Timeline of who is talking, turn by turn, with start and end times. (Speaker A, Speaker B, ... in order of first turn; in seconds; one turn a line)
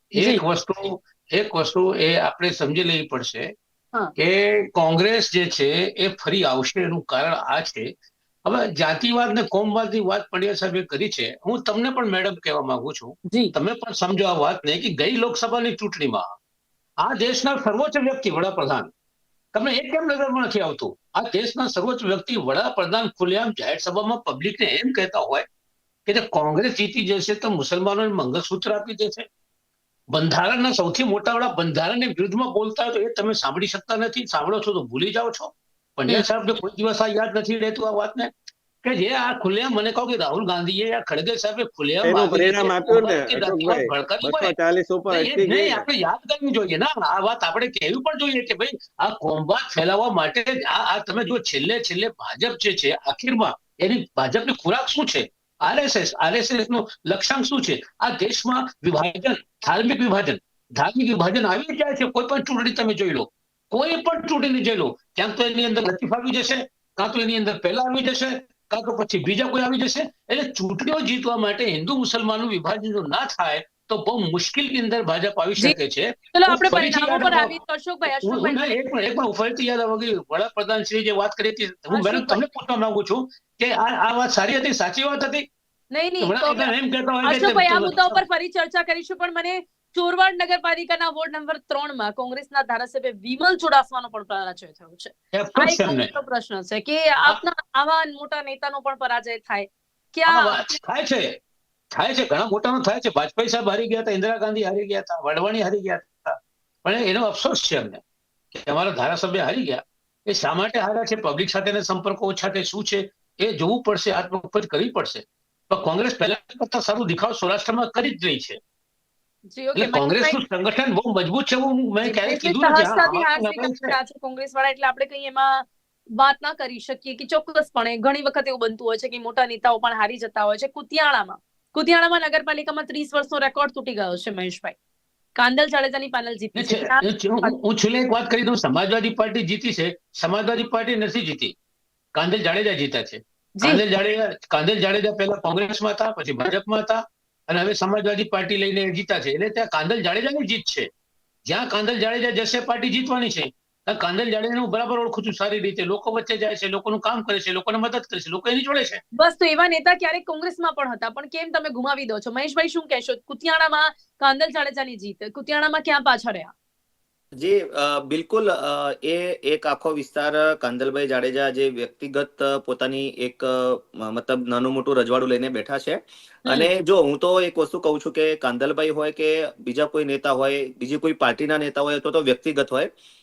Speaker A: 0.1-3.5
Speaker B: 0.2-0.4
Speaker A: 4.2-7.9
Speaker A: 8.4-16.3
Speaker A: 17.0-18.9
Speaker A: 19.5-25.4
Speaker A: 26.1-29.2
Speaker A: 30.1-38.3
Speaker A: 38.8-44.5
Speaker C: 42.0-45.9
Speaker A: 45.1-77.5
Speaker B: 76.3-78.7
Speaker A: 78.1-85.5
Speaker B: 81.9-82.4
Speaker B: 85.9-86.7
Speaker A: 86.2-88.2
Speaker B: 87.2-100.6
Speaker A: 95.3-96.1
Speaker A: 100.3-101.3
Speaker A: 101.9-108.0
Speaker A: 108.5-118.6
Speaker B: 119.5-120.4
Speaker A: 119.8-124.0
Speaker B: 122.0-134.8
Speaker B: 135.4-137.6
Speaker A: 136.6-141.6
Speaker A: 142.2-150.9
Speaker A: 151.5-159.0
Speaker B: 159.2-166.5
Speaker D: 167.3-182.9